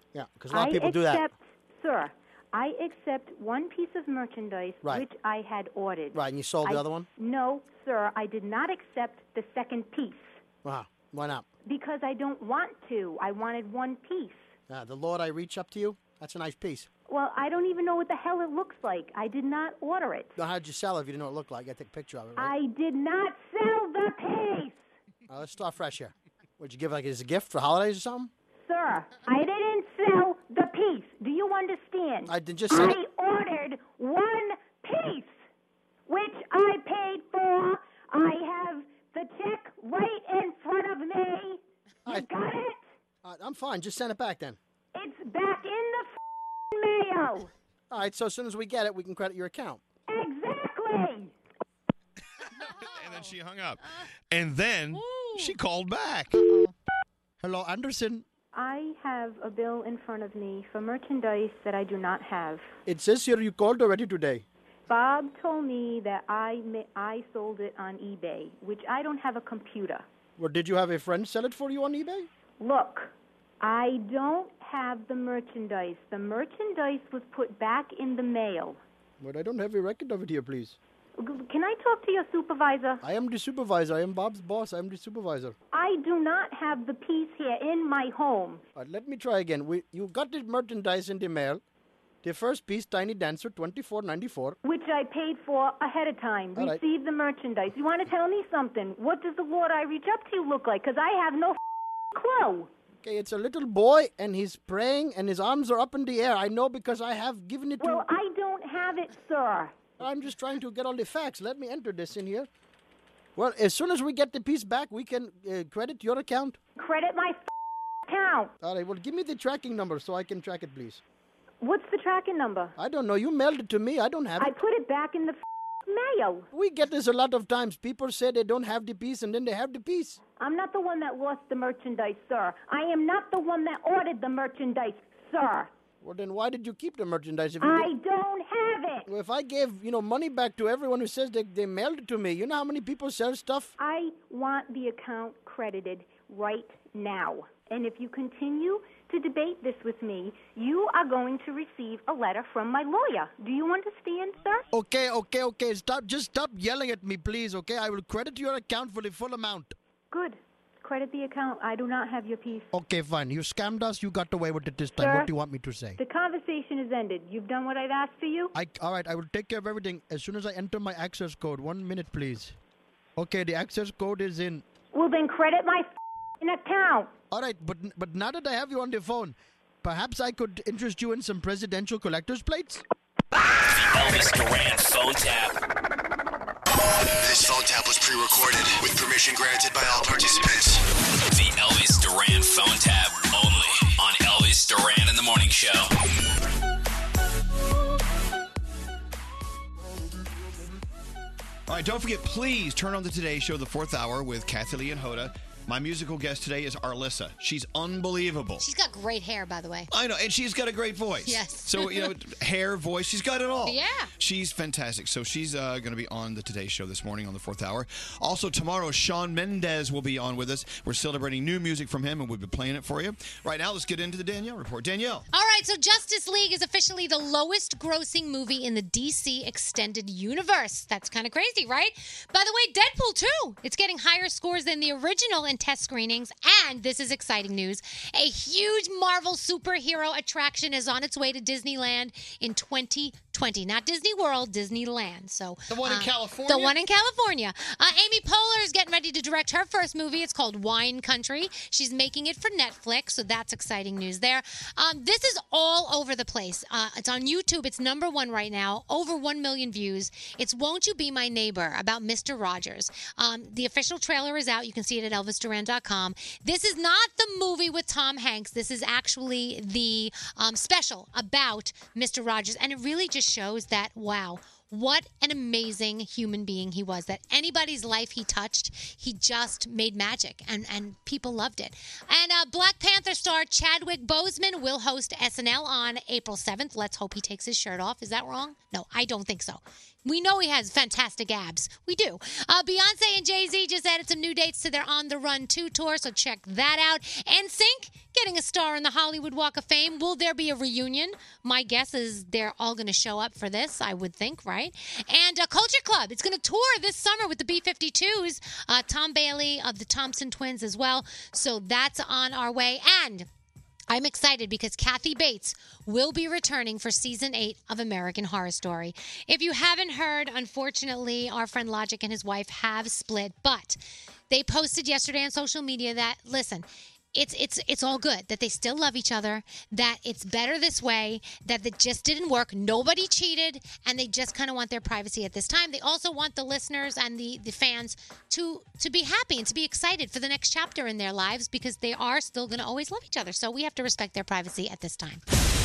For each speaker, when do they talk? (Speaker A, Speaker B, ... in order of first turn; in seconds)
Speaker A: 0.1-1.2, 6.1-7.1, 10.6-11.4, 14.7-16.9, 20.4-22.5, 25.3-28.3, 32.3-33.0, 43.2-44.6, 47.9-49.8, 57.4-58.2, 62.9-64.4, 70.4-72.3, 79.2-80.8, 83.0-85.5, 88.8-91.6, 92.2-94.6, 103.0-108.0, 110.0-112.5, 113.3-116.6, 118.6-121.0, 122.8-124.5, 126.5-130.2, 136.0-137.9, 139.1-143.7, 154.7-159.7, 162.7-166.0, 168.5-172.5, 173.2-174.6, 177.3-182.8
Speaker B: 0.5-10.4, 11.7-14.5, 17.1-20.3, 22.4-24.8, 28.6-35.4, 36.1-42.8, 44.9-46.1, 46.7-47.5, 50.1-51.3, 58.5-62.7, 64.9-70.0, 72.6-78.8, 81.2-83.0, 85.7-88.6, 94.6-101.6, 102.1-102.7, 107.8-109.8, 116.8-117.5, 118.0-118.5, 121.6-122.7, 124.4-126.5, 130.4-135.7, 137.6-139.1, 143.8-154.7, 160.1-162.7, 165.0-165.3, 166.0-168.5, 174.9-175.9, 176.4-177.1
Speaker C: 52.8-53.8, 54.3-56.4, 201.7-208.7, 209.9-225.3, 245.7-246.8
Speaker D: 55.0-55.5, 208.6-209.9, 211.2-212.1, 213.6-214.1, 225.3-313.2, 313.9-345.2
Speaker E: 183.6-185.6, 191.3-195.9
Speaker F: 187.3-188.9, 189.8-190.3